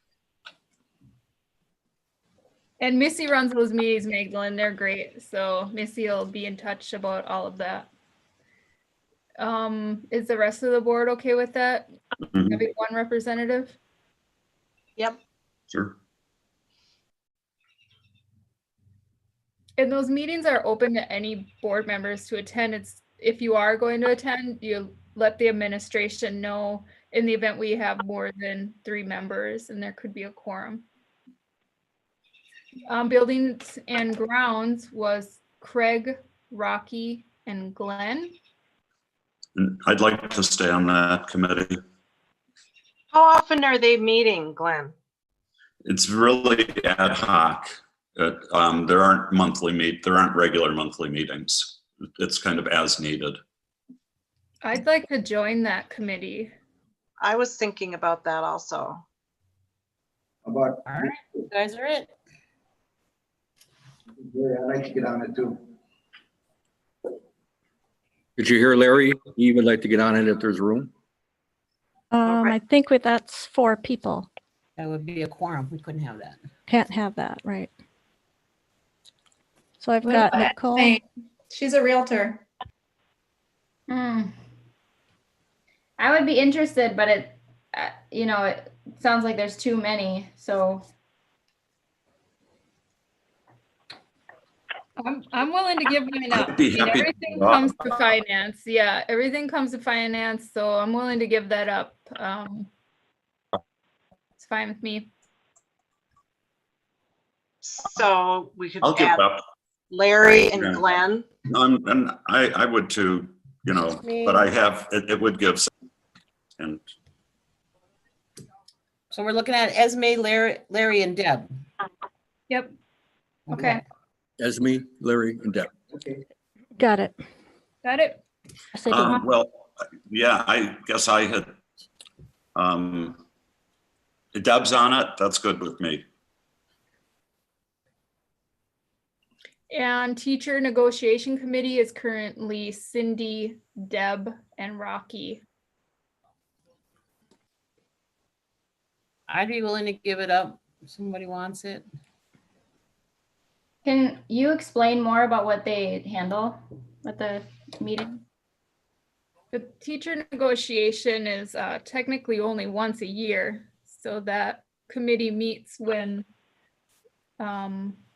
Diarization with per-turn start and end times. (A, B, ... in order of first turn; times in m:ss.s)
0:02.8-0:07.9 A
0:09.4-0:11.9 A
0:12.3-0:12.6 B
0:12.4-0:13.8 A
0:15.7-0:16.0 B
0:19.8-0:30.8 A
0:32.9-0:38.3 A
0:39.6-0:41.8 B
0:43.1-0:44.9 C
0:45.9-0:53.4 B
0:54.6-0:56.5 A
0:57.2-0:59.0 C
1:00.4-1:01.1 D
1:00.9-1:02.1 E
1:04.2-1:05.6 D
1:08.4-1:10.9 F
1:12.1-1:14.3 G
1:12.3-1:12.6 C
1:14.8-1:16.4 E
1:16.7-1:17.7 G
1:19.8-1:21.0 G
1:20.0-1:22.4 H
1:23.9-1:24.4 I
1:26.0-1:30.8 I
1:35.0-1:42.7 A
1:36.3-1:37.8 B
1:44.4-1:45.1 A
1:47.6-1:49.2 C
1:48.8-1:49.4 B
1:49.9-1:51.3 C
1:50.2-1:50.9 B
1:51.5-1:55.7 B
1:54.0-1:54.5 E
1:59.1-2:01.5 E
2:03.5-2:03.8 A
2:04.4-2:05.7 F
2:05.9-2:06.2 D
2:06.8-2:07.2 G
2:07.8-2:08.2 A
2:08.8-2:09.2 G
2:08.9-2:11.6 B
2:12.6-2:13.2 B
2:14.3-2:16.0 B
2:19.7-2:25.4 A
2:29.3-2:31.8 E
2:33.8-2:38.2 I
2:39.5-2:46.3 A
2:47.4-2:48.0 A